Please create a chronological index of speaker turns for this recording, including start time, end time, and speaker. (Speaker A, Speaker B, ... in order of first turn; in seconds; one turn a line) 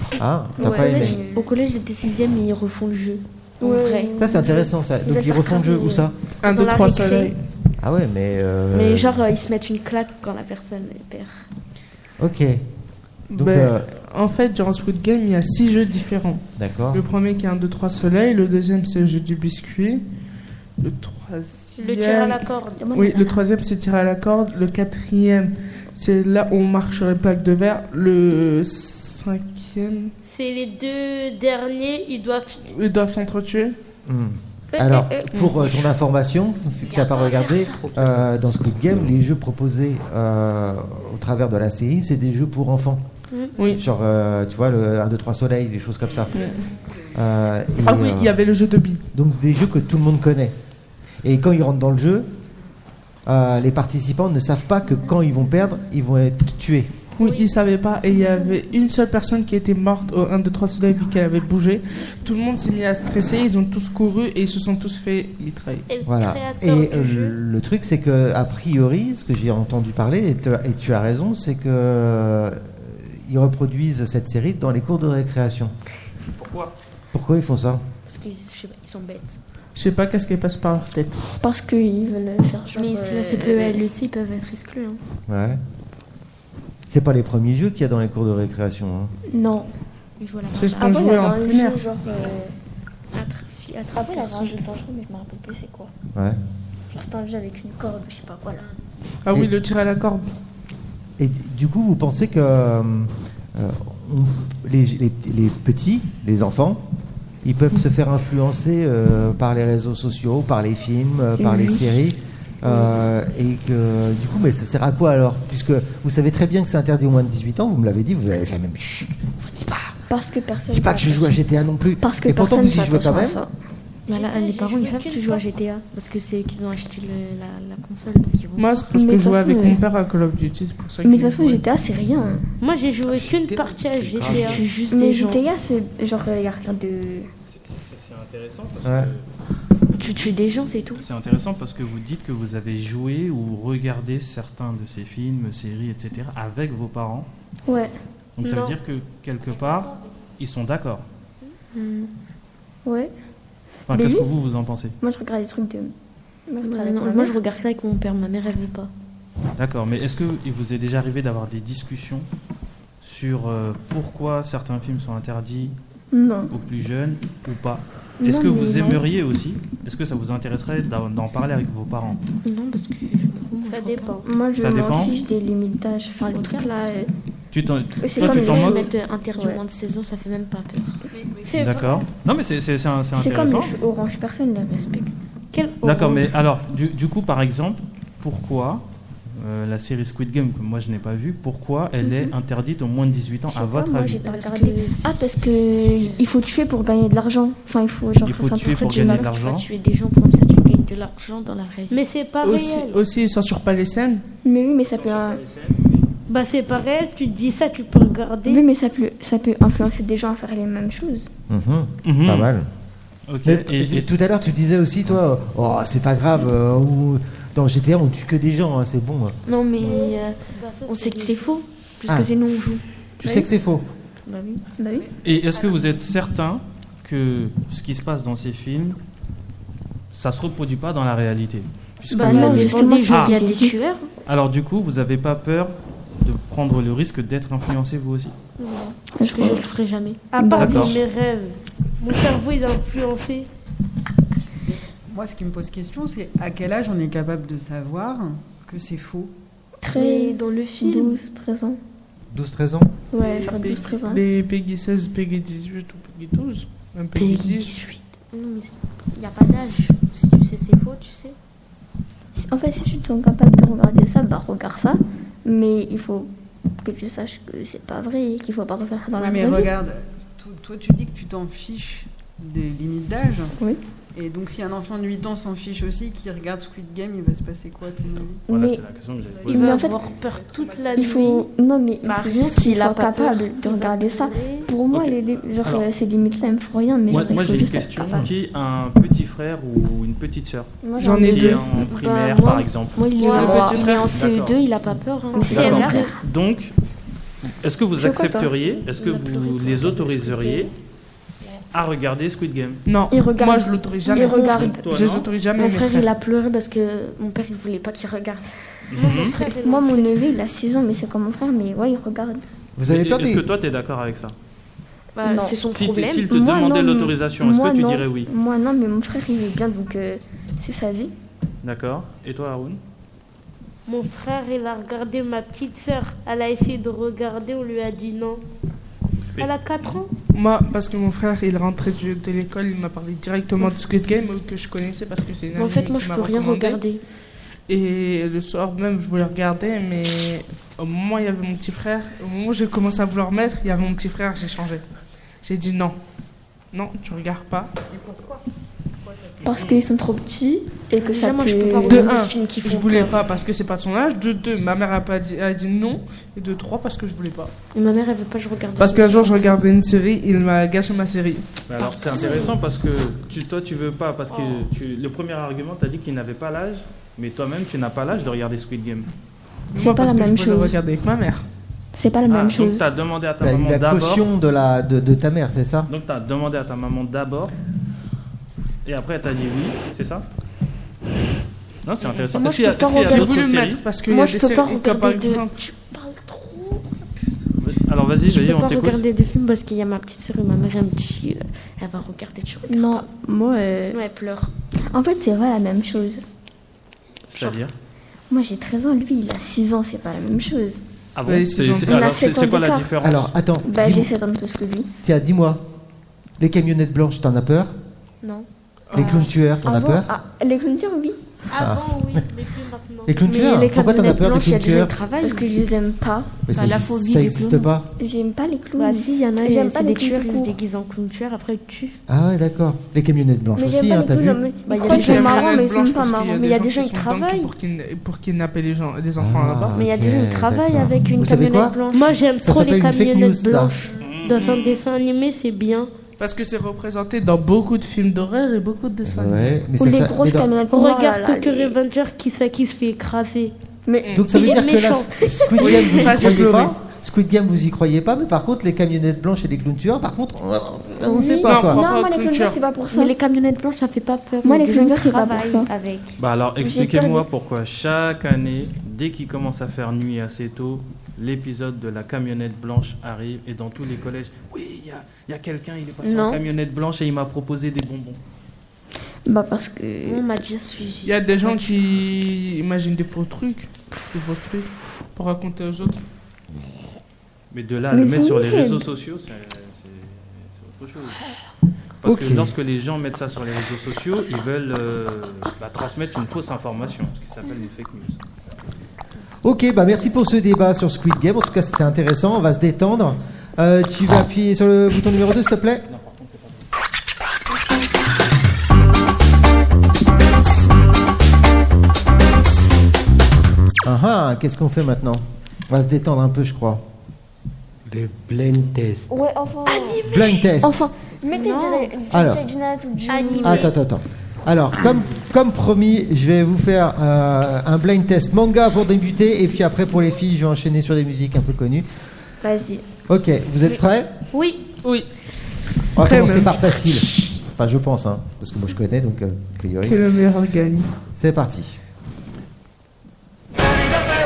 Speaker A: 0.2-1.2
Speaker B: 0.6-1.5
Speaker C: 0.6-4.1
Speaker B: 3.6-4.7
Speaker A: 4.2-6.1
Speaker C: 5.0-7.2
Speaker D: 6.4-7.4
Speaker E: 6.5-7.1
Speaker A: 7.8-9.2
Speaker C: 8.7-11.4
Speaker A: 12.2-12.6
Speaker D: 13.3-20.0
Speaker A: 13.3-13.8
Speaker A: 16.6-17.0
Speaker D: 20.8-30.1
Speaker E: 21.8-22.8
Speaker B: 22.8-23.4
Speaker E: 30.3-32.6
Speaker D: 32.6-33.8
Speaker A: 34.0-43.0
Speaker B: 34.8-35.2
Speaker D: 35.3-35.6
Speaker B: 37.3-37.5
Speaker F: 37.8-39.0
Speaker D: 43.5-43.8
Speaker A: 43.7-46.3
Speaker D: 46.3-46.7
Speaker G: 46.4-46.9
Speaker A: 47.1-48.4
Speaker D: 47.8-49.0
Speaker A: 49.1-50.5
Speaker A: 51.2-52.3
Speaker A: 53.2-56.9
Speaker D: 57.2-65.8
Speaker E: 57.2-57.5
Speaker E: 65.9-67.4
Speaker A: 66.0-75.7
Speaker H: 76.3-76.7
Speaker A: 77.1-77.8
Speaker C: 78.1-79.4
Speaker D: 79.8-81.2
Speaker B: 81.4-83.8
Speaker C: 82.7-85.0
Speaker A: 85.3-85.6
Speaker A: 86.9-89.1
Speaker B: 89.3-89.7
Speaker C: 90.2-91.4
Speaker D: 90.5-91.8
Speaker B: 90.8-92.5
Speaker C: 93.1-94.6
Speaker B: 93.9-95.9
Speaker B: 96.9-98.7
Speaker D: 99.2-100.2
Speaker A: 101.2-106.8
Speaker A: 107.4-119.9
Speaker B: 111.4-112.0
Speaker B: 120.1-121.4
Speaker A: 120.7-123.4
Speaker B: 122.0-123.5
Speaker C: 124.1-128.8
Speaker E: 124.1-125.4
Speaker D: 128.6-131.6
Speaker B: 128.9-129.8
Speaker B: 131.0-132.4
Speaker E: 132.6-134.6
Speaker F: 133.1-134.6
Speaker C: 134.3-135.4
Speaker B: 134.9-137.3
Speaker H: 137.5-139.2
Speaker A: 138.8-139.1
Speaker C: 139.9-141.0
Speaker H: 141.0-147.3
Speaker B: 147.7-147.9
Speaker H: 148.4-151.0
Speaker E: 148.4-148.8
Speaker C: 151.7-152.1
Speaker B: 152.8-153.1
Speaker H: 153.9-154.9
Speaker B: 153.9-154.3
Speaker B: 155.0-155.9
Speaker B: 156.5-157.3
Speaker C: 156.6-158.9
Speaker H: 159.6-162.3
Speaker H: 163.0-165.8
Speaker B: 166.1-166.5
Speaker H: 166.5-172.2
Speaker B: 168.2-169.0
Speaker C: 172.4-174.2
Speaker E: 173.7-174.2
Speaker B: 174.2-177.1
Speaker H: 174.6-175.2
Speaker C: 176.2-177.1
Speaker H: 177.5-178.9
Speaker B: 178.0-179.6
Speaker C: 178.2-181.0
Speaker E: 181.4-182.1
Speaker H: 181.5-183.7
Speaker B: 183.2-185.1
Speaker E: 185.5-186.3
Speaker H: 185.8-194.3
Speaker B: 192.0-192.3
Speaker B: 193.5-199.3
Speaker C: 194.1-195.6
Speaker H: 198.2-199.7
Speaker C: 198.6-202.0
Speaker E: 201.9-203.0
Speaker D: 202.4-204.2
Speaker B: 204.4-205.4
Speaker H: 204.9-206.1
Speaker E: 206.3-208.6
Speaker B: 208.4-211.3
Speaker A: 211.5-212.7
Speaker H: 212.0-212.5
Speaker H: 213.3-214.1
Speaker A: 213.4-219.3
Speaker C: 219.5-222.8
Speaker B: 219.8-220.1
Speaker E: 220.5-221.4
Speaker A: 223.2-223.8
Speaker C: 224.2-224.6
Speaker B: 224.8-225.1
Speaker G: 225.0-225.9
Speaker H: 225.2-229.0
Speaker H: 230.1-233.3
Speaker B: 232.1-233.8
Speaker C: 232.1-234.1
Speaker H: 234.3-238.3
Speaker B: 238.6-239.7
Speaker C: 239.1-240.8
Speaker E: 240.3-243.5
Speaker B: 240.3-240.9
Speaker H: 240.6-241.0
Speaker G: 244.7-249.3
Speaker B: 249.8-251.8
Speaker C: 249.9-251.2
Speaker A: 252.3-252.9
Speaker B: 253.1-254.2
Speaker D: 253.2-257.8
Speaker C: 257.1-261.4
Speaker B: 262.4-266.3
Speaker B: 266.8-269.7
Speaker G: 269.1-273.5
Speaker G: 274.1-278.4
Speaker B: 278.5-278.8
Speaker H: 278.5-279.9
Speaker G: 279.4-281.1
Speaker E: 279.5-281.4
Speaker B: 279.5-280.0
Speaker B: 280.9-288.3
Speaker C: 282.0-284.6
Speaker H: 284.9-285.9
Speaker H: 287.1-294.6
Speaker B: 290.8-291.5
Speaker D: 291.0-291.7
Speaker C: 291.8-296.1
Speaker D: 293.2-294.1
Speaker B: 293.2-293.8
Speaker B: 295.3-296.2
Speaker H: 295.4-296.7
Speaker E: 295.6-296.0
Speaker H: 297.5-300.7
Speaker B: 298.0-298.5
Speaker C: 298.6-300.7
Speaker H: 301.7-302.8
Speaker D: 302.9-306.1
Speaker B: 303.1-304.8
Speaker C: 304.1-304.6
Speaker H: 304.3-305.3
Speaker C: 305.5-309.6
Speaker H: 308.9-309.4
Speaker E: 309.0-310.0
Speaker B: 309.6-312.4
Speaker A: 312.8-313.4
Speaker H: 312.8-314.3
Speaker C: 315.1-316.3
Speaker B: 315.2-315.6
Speaker H: 315.7-318.3
Speaker B: 316.3-321.1
Speaker H: 321.6-322.8
Speaker E: 323.9-328.4
Speaker E: 329.4-330.1
Speaker D: 330.3-336.8
Speaker C: 335.5-337.0
Speaker D: 337.7-344.8
Speaker D: 345.4-345.9
Speaker D: 346.7-347.7
Speaker G: 347.9-348.4
Speaker G: 349.0-349.6
Speaker B: 349.4-352.1
Speaker C: 351.0-353.2
Speaker D: 351.9-357.5
Speaker C: 357.7-359.6
Speaker D: 358.8-361.6
Speaker H: 361.7-369.1
Speaker C: 361.8-362.6
Speaker B: 362.2-362.4
Speaker C: 364.3-364.6
Speaker D: 369.7-371.4
Speaker B: 369.8-370.8
Speaker B: 371.9-372.9
Speaker H: 372.2-374.2
Speaker A: 373.4-375.9
Speaker H: 375.9-377.5
Speaker H: 378.8-380.2
Speaker H: 381.8-383.9
Speaker D: 382.0-385.6
Speaker C: 382.3-383.2
Speaker C: 384.0-386.9
Speaker H: 387.6-389.0
Speaker C: 388.3-393.1
Speaker B: 392.7-394.0
Speaker C: 393.8-394.5
Speaker B: 394.9-396.2
Speaker H: 397.3-397.7
Speaker B: 398.3-400.8
Speaker H: 401.1-403.3
Speaker D: 401.2-402.1
Speaker B: 401.8-402.9
Speaker A: 403.0-404.1
Speaker B: 403.6-404.9
Speaker A: 405.0-405.6
Speaker A: 406.4-407.7
Speaker C: 408.2-409.3
Speaker D: 408.9-409.2
Speaker A: 408.9-410.1
Speaker B: 409.6-411.2
Speaker E: 411.5-413.1
Speaker A: 411.6-412.2
Speaker A: 413.1-414.9
Speaker C: 413.2-415.6
Speaker B: 415.2-416.5
Speaker A: 416.5-417.9
Speaker C: 416.5-417.7
Speaker B: 418.0-420.5
Speaker C: 418.8-422.0
Speaker A: 422.1-425.2
Speaker B: 423.6-426.4
Speaker C: 424.6-425.6
Speaker D: 424.8-429.8
Speaker C: 426.3-427.5
Speaker A: 429.2-431.8
Speaker C: 429.8-432.3
Speaker E: 431.9-435.9
Speaker A: 432.3-433.7
Speaker G: 433.9-434.1
Speaker H: 433.9-434.8
Speaker D: 436.2-439.6
Speaker A: 439.0-440.5
Speaker B: 439.8-441.8
Speaker E: 440.7-443.5
Speaker B: 443.9-444.6
Speaker D: 444.0-444.3
Speaker A: 444.1-451.8
Speaker E: 444.3-445.8
Speaker B: 445.4-445.9
Speaker D: 445.6-446.7
Speaker B: 451.0-453.1
Speaker D: 451.4-452.6
Speaker C: 452.9-456.2
Speaker B: 454.4-455.7
Speaker H: 456.2-468.2
Speaker B: 456.6-457.2
Speaker C: 466.0-466.4
Speaker B: 469.2-470.2
Speaker C: 470.0-471.8
Speaker D: 471.0-476.0
Speaker H: 477.5-481.2
Speaker B: 477.9-478.8
Speaker H: 482.0-488.2
Speaker A: 482.0-482.5
Speaker A: 489.4-495.8
Speaker H: 495.9-496.6
Speaker A: 503.8-506.8
Speaker F: 507.9-509.1
Speaker B: 509.1-510.0
Speaker E: 509.7-510.5
Speaker A: 510.0-510.9
Speaker B: 510.6-513.7
Speaker C: 511.3-511.9
Speaker A: 512.1-512.4
Speaker E: 513.1-513.7
Speaker A: 513.4-521.9
Speaker B: 522.4-522.8
Speaker A: 523.1-524.1
Speaker E: 524.3-524.6
Speaker D: 524.8-525.1
Speaker A: 525.9-530.0
Speaker D: 526.0-526.6
Speaker D: 529.8-530.9
Speaker A: 531.1-531.8